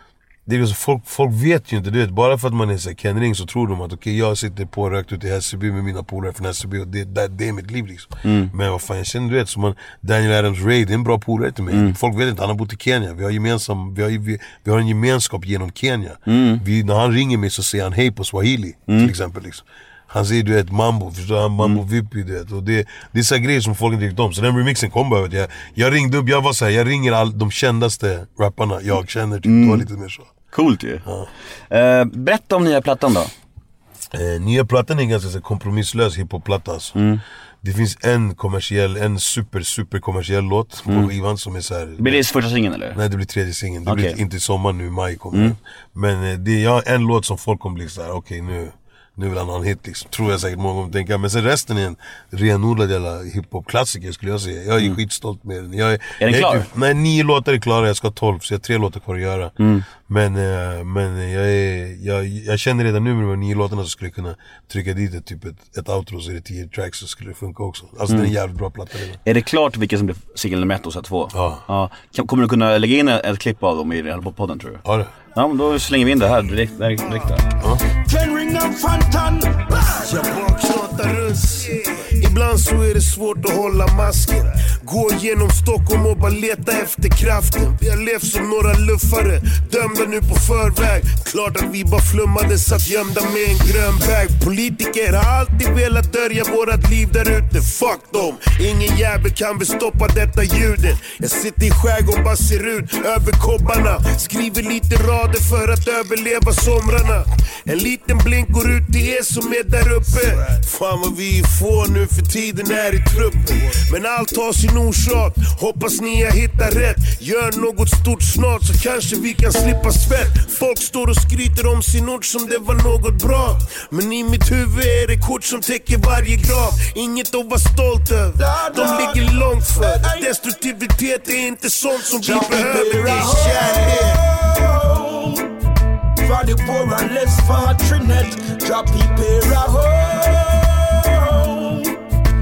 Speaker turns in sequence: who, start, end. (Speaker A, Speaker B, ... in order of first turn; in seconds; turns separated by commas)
Speaker A: 0.5-30.3, Speaker B: 8.2-8.5, Speaker B: 11.7-12.0, Speaker B: 16.3-16.6, Speaker B: 29.4-29.9, Speaker B: 30.5-31.0, Speaker A: 31.0-31.3, Speaker B: 31.7-33.3, Speaker A: 34.1-37.0, Speaker B: 37.0-37.2, Speaker A: 37.6-42.2, Speaker B: 40.9-41.1, Speaker B: 42.0-43.0, Speaker A: 42.9-69.2, Speaker B: 43.9-44.2, Speaker B: 56.2-56.7, Speaker B: 59.6-59.9, Speaker B: 69.2-74.8, Speaker A: 71.3-71.6, Speaker A: 74.8-75.1, Speaker B: 75.3-77.5, Speaker A: 77.6-77.8, Speaker C: 77.9-80.5, Speaker D: 80.0-134.2, Speaker C: 128.4-130.3, Speaker C: 132.0-135.5, Speaker C: 136.2-142.0